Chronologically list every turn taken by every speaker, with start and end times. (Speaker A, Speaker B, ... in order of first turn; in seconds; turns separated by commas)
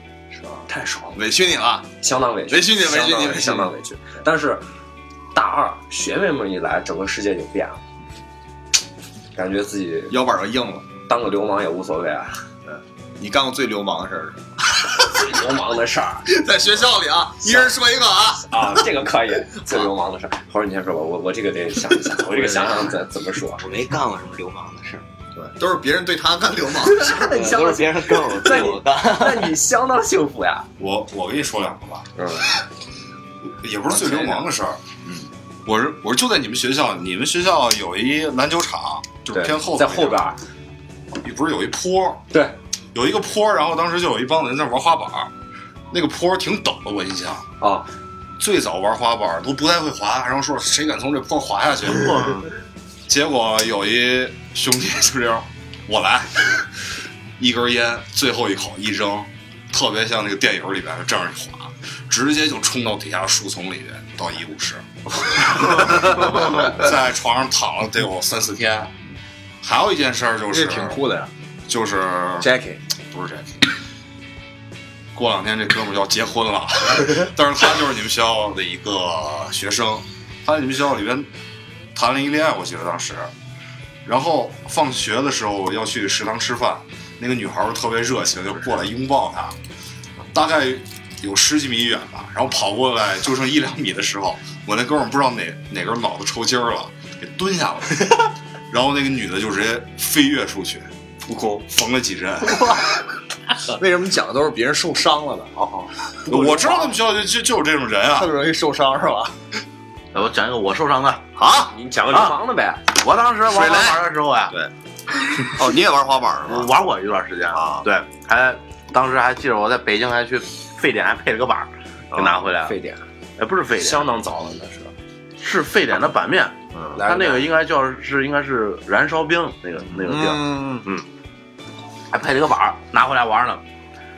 Speaker A: 0.3-1.9, Speaker B: 0.7-1.2, Speaker B: 2.0-4.7, Speaker A: 2.5-3.7, Speaker B: 5.3-7.8, Speaker B: 9.3-10.2, Speaker A: 10.1-10.9, Speaker B: 11.1-12.4, Speaker A: 12.7-14.4, Speaker B: 15.0-16.4, Speaker A: 16.3-18.8, Speaker B: 17.4-17.8, Speaker B: 18.4-23.7, Speaker C: 23.6-25.1, Speaker A: 25.4-27.3, Speaker B: 26.8-30.7, Speaker C: 27.2-29.6, Speaker D: 30.8-32.1, Speaker B: 32.2-32.5, Speaker D: 33.6-34.8, Speaker A: 33.9-34.4, Speaker A: 35.0-35.3, Speaker D: 35.6-40.2, Speaker B: 39.3-40.4, Speaker D: 41.1-42.2, Speaker D: 42.9-45.3, Speaker D: 45.9-47.5, Speaker B: 47.6-47.9, Speaker D: 48.4-52.4, Speaker E: 51.9-52.5, Speaker D: 53.1-56.7, Speaker D: 57.4-68.9, Speaker D: 69.6-71.0, Speaker A: 70.5-71.3, Speaker D: 71.7-72.5, Speaker A: 72.4-72.8, Speaker D: 73.1-73.6, Speaker D: 75.2-81.3, Speaker D: 82.0-83.3, Speaker D: 84.0-89.6, Speaker D: 90.3-100.9, Speaker B: 101.3-101.6, Speaker D: 101.6-102.8, Speaker A: 103.7-105.6, Speaker D: 106.3-108.3, Speaker B: 106.3-106.8, Speaker A: 106.5-106.7, Speaker A: 108.1-109.4, Speaker E: 110.1-111.2, Speaker A: 111.4-111.7, Speaker B: 111.7-112.8, Speaker E: 112.1-112.4, Speaker E: 112.9-114.6, Speaker A: 113.5-114.7, Speaker A: 115.3-116.7, Speaker E: 116.5-122.8, Speaker A: 117.5-117.9, Speaker B: 122.2-123.0, Speaker E: 123.4-124.1, Speaker B: 123.8-124.9, Speaker E: 125.4-131.1, Speaker B: 127.0-127.5, Speaker A: 129.9-130.9, Speaker E: 132.1-133.6